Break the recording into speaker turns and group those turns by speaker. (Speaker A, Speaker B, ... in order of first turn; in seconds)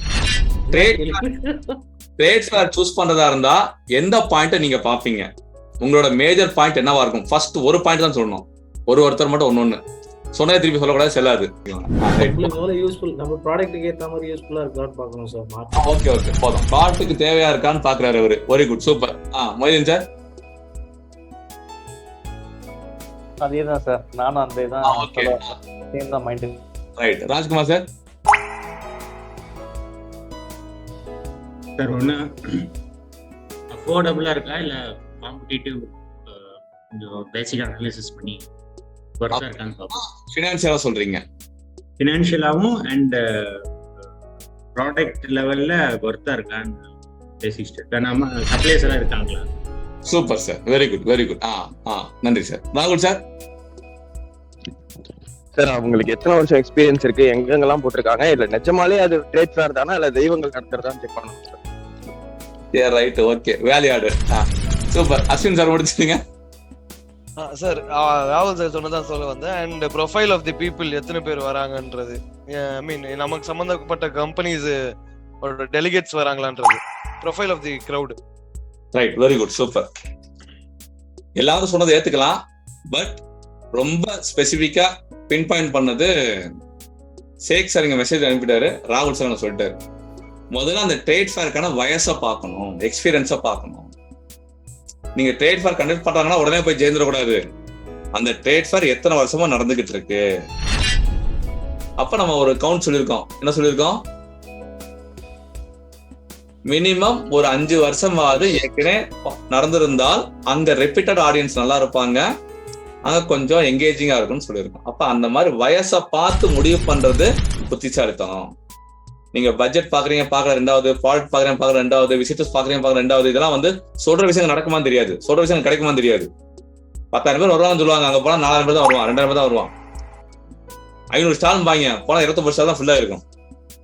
Speaker A: 0.7-1.6, 12.3-15.8
Speaker B: 0.7-1.2, 2.2-5.3, 5.8-9.8, 10.3-12.6, 15.8-20.0, 24.8-25.5, 27.0-27.8, 39.4-41.2, 50.1-53.2, 62.7-66.2, 78.9-79.9, 81.4-82.4, 82.9-83.2, 83.7-86.1, 87.5-89.7, 90.5-93.9, 95.2-97.4, 98.1-100.2, 102.0-104.0, 106.7-112.2, 113.0-118.5, 119.3-126.3, 127.1-129.7, 131.1-133.2
Speaker C: 23.4-26.6
Speaker D: 31.8-32.2, 33.7-38.5, 39.2-40.0, 42.0-43.6, 44.8-46.9, 47.4-49.5
Speaker E: 55.5-61.6
Speaker F: 67.4-74.7, 75.4-78.2